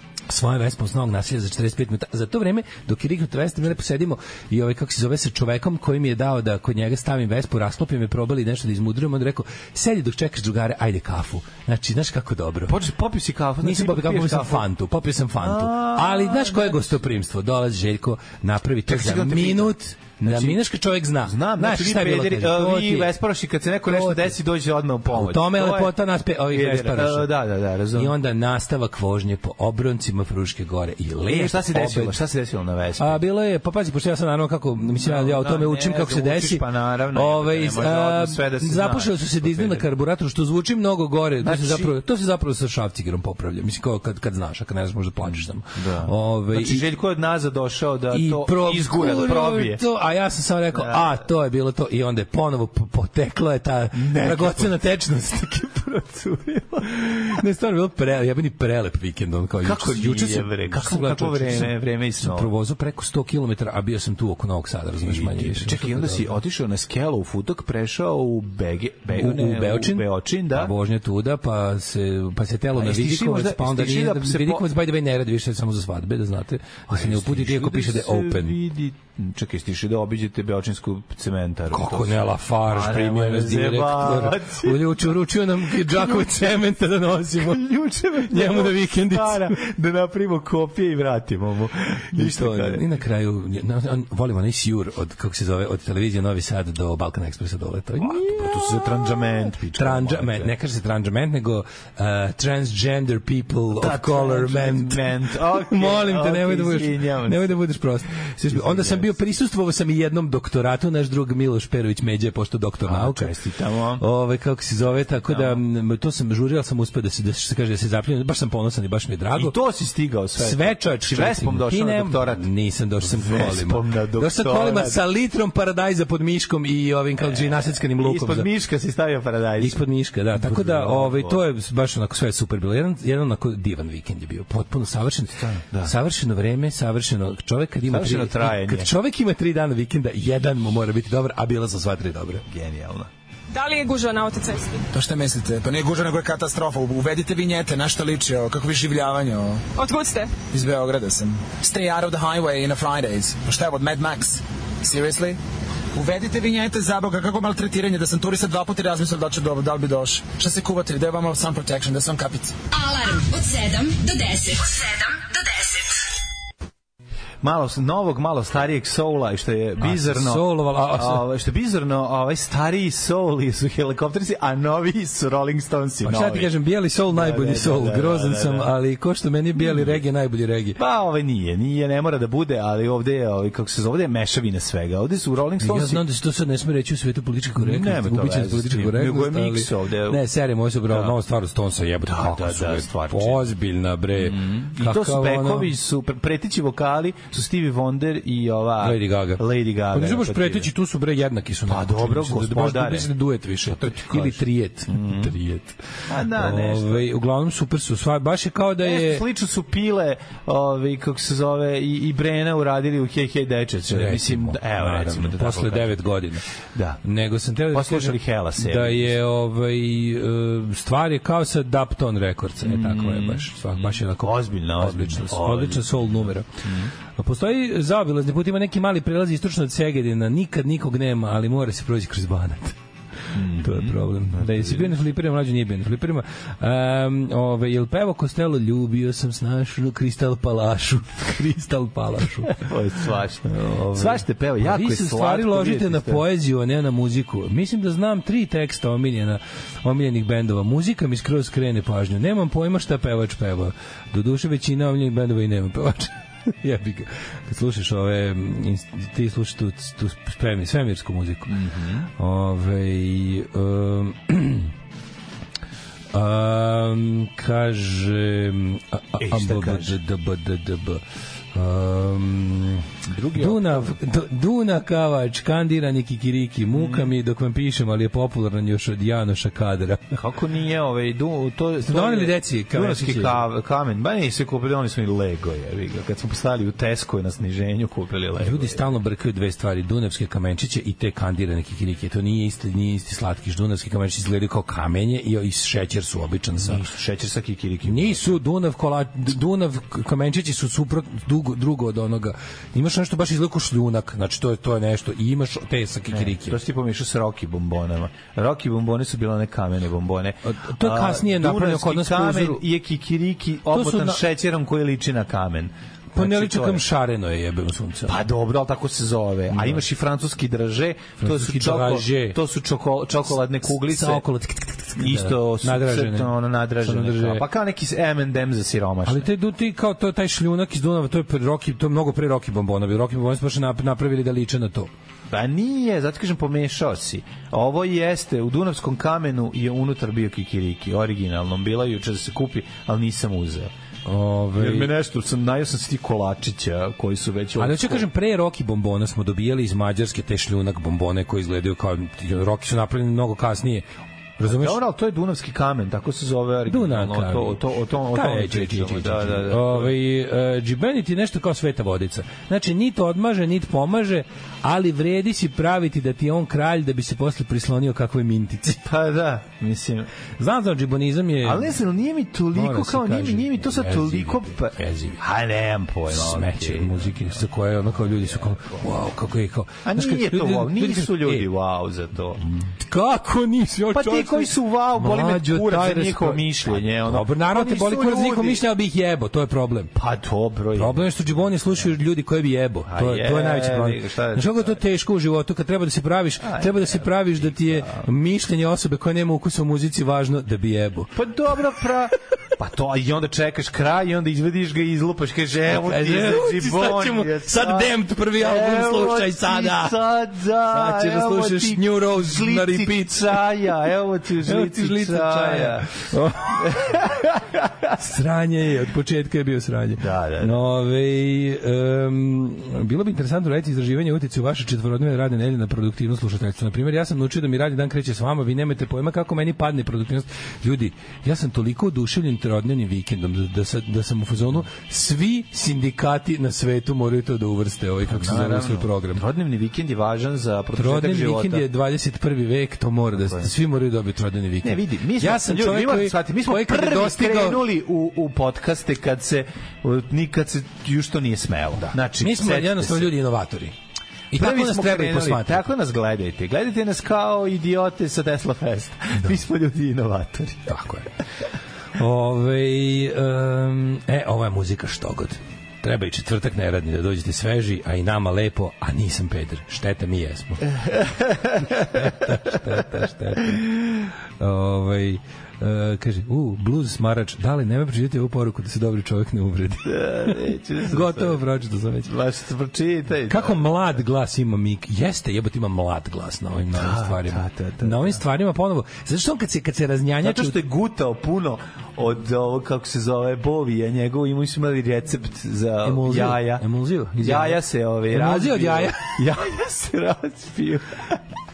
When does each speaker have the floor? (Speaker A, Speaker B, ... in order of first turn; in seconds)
Speaker A: 0.3-12.8, 13.6-23.1, 23.9-24.4, 25.1-27.3, 27.9-32.2, 33.0-46.9, 48.1-56.0, 57.0-66.4, 69.1-78.6, 81.7-87.7, 88.2-89.5, 92.1-98.9, 99.7-113.4, 114.0-119.6, 120.4-128.5, 129.6-142.4, 169.8-171.2, 176.0-180.8, 185.6-195.7, 198.8-209.3, 213.9-216.4, 217.0-226.6, 227.2-232.8, 233.3-242.6, 243.5-261.6, 262.2-264.7, 266.1-280.2, 281.9-283.4, 288.4-296.8, 297.9-306.6, 310.5-312.6, 313.7-314.2, 316.1-318.2, 319.5-319.8, 321.2-322.4, 323.7-327.4, 329.1-334.9, 344.1-344.9, 347.6-353.9, 354.4-354.8, 356.7-357.6, 358.1-368.9, 370.4-371.8, 372.5-375.2, 376.1-381.5, 382.6-389.9, 390.7-401.1, 405.7-410.0, 410.7-413.4, 414.4-417.0, 418.0-439.2, 440.8-447.6, 451.9-453.8, 454.3-455.7, 460.7-461.1, 462.0-470.8, 471.6-473.7, 474.4-482.1, 483.3-490.6, 495.8-499.1
Speaker B: 12.7-14.7, 15.4-16.9, 18.9-20.6, 21.2-25.9, 26.5-28.2, 31.3-33.2, 35.0-39.9, 41.4-42.0, 45.8-49.8, 50.7-51.1, 53.9-54.8, 55.8-57.4, 59.6-62.5, 65.0-70.7, 72.8-74.7, 76.9-85.1, 85.7-86.7, 87.3-92.9, 98.0-100.5, 103.8-107.6, 108.2-109.1, 112.9-114.0, 115.3-115.6, 119.3-122.5, 123.0-125.0, 127.2-131.4, 135.4-135.9, 137.9-138.9, 142.5-143.1, 167.4-176.5, 177.1-178.7, 179.6-180.0, 180.8-186.0, 187.6-190.2, 190.9-191.2, 192.0-193.4, 194.2-200.7, 201.7-203.1, 203.7-205.3, 206.1-207.1, 208.8-216.2, 216.8-217.0, 217.7-219.1, 222.6-226.9, 233.3-234.9, 242.5-246.2, 261.5-262.1, 269.2-270.0, 273.1-274.0, 276.7-277.1, 280.1-288.8, 296.6-298.3, 306.1-316.8, 318.1-324.2, 325.0-329.3, 335.3-343.7, 344.6-348.1, 354.4-359.9, 368.9-370.1, 371.4-377.3, 378.3-378.7, 379.8-382.5, 383.9-388.6, 389.9-391.8, 392.9-394.8, 396.4-398.1, 401.1-416.0, 416.6-417.7, 420.0-420.6, 438.1-441.7, 443.2-443.5, 444.6-453.1, 454.4-460.8, 470.9-471.6, 479.9-481.4, 482.1-483.6, 486.8-488.2, 490.2-496.6, 497.2-501.2
Speaker C: 143.5-144.8, 149.7-150.4
Speaker D: 144.9-149.7, 150.5-155.4, 155.9-162.6
Speaker E: 162.7-166.0